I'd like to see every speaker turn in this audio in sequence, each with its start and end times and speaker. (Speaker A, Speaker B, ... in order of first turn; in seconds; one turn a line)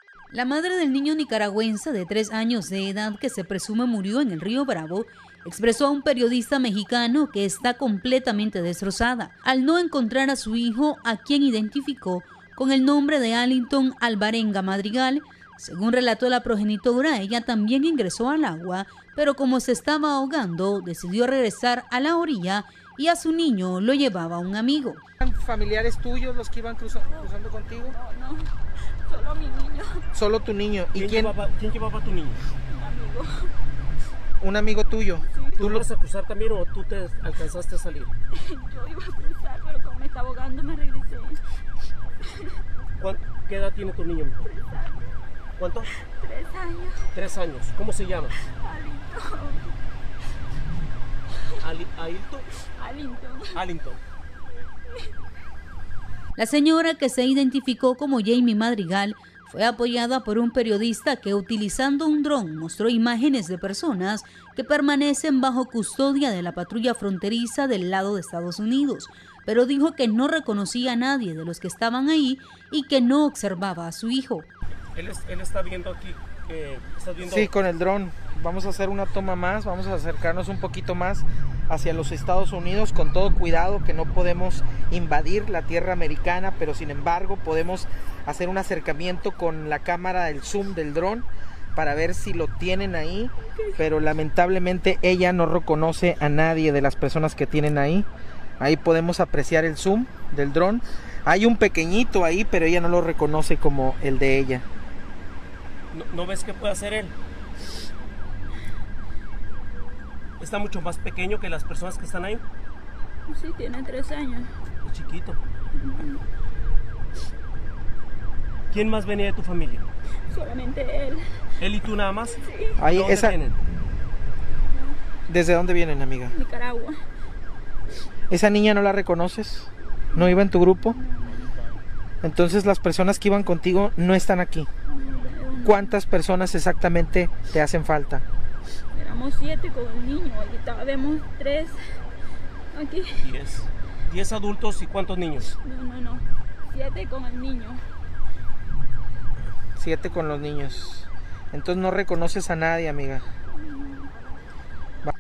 Speaker A: 0.3-25.0
Speaker B: 25.2-28.0
Speaker C: 27.9-30.0
Speaker B: 30.1-31.3
Speaker D: 30.9-32.5
Speaker C: 32.7-33.5
Speaker B: 34.4-35.9
Speaker C: 35.3-35.6
Speaker D: 35.6-38.1
Speaker C: 38.3-41.4
Speaker C: 42.2-42.6
Speaker D: 43.0-44.5
Speaker C: 44.4-45.2
Speaker D: 45.6-45.9
Speaker C: 46.0-47.1
Speaker D: 47.1-48.5
Speaker C: 48.5-49.8
Speaker D: 51.6-52.6
Speaker C: 52.7-53.6
Speaker D: 53.5-54.0
Speaker A: 56.4-74.5
Speaker D: 74.9-77.5
Speaker B: 77.2-98.1
Speaker B: 98.6-104.6
Speaker D: 105.9-107.1
Speaker D: 110.4-112.4
Speaker C: 113.3-114.5
Speaker D: 114.8-115.4
Speaker C: 115.7-116.2
Speaker D: 118.7-119.9
Speaker C: 120.3-121.4
Speaker D: 121.6-123.6
Speaker C: 122.4-122.8
Speaker B: 122.8-123.4
Speaker C: 124.7-125.0
Speaker B: 125.3-126.3
Speaker C: 126.3-127.0
Speaker B: 128.3-131.0
Speaker C: 130.9-131.5
Speaker B: 132.2-134.7
Speaker C: 134.9-135.9
Speaker B: 135.6-138.2
Speaker C: 138.9-141.8
Speaker C: 142.7-143.3
Speaker D: 143.2-145.6
Speaker C: 145.6-147.8
Speaker B: 149.8-153.2
Speaker C: 153.6-154.1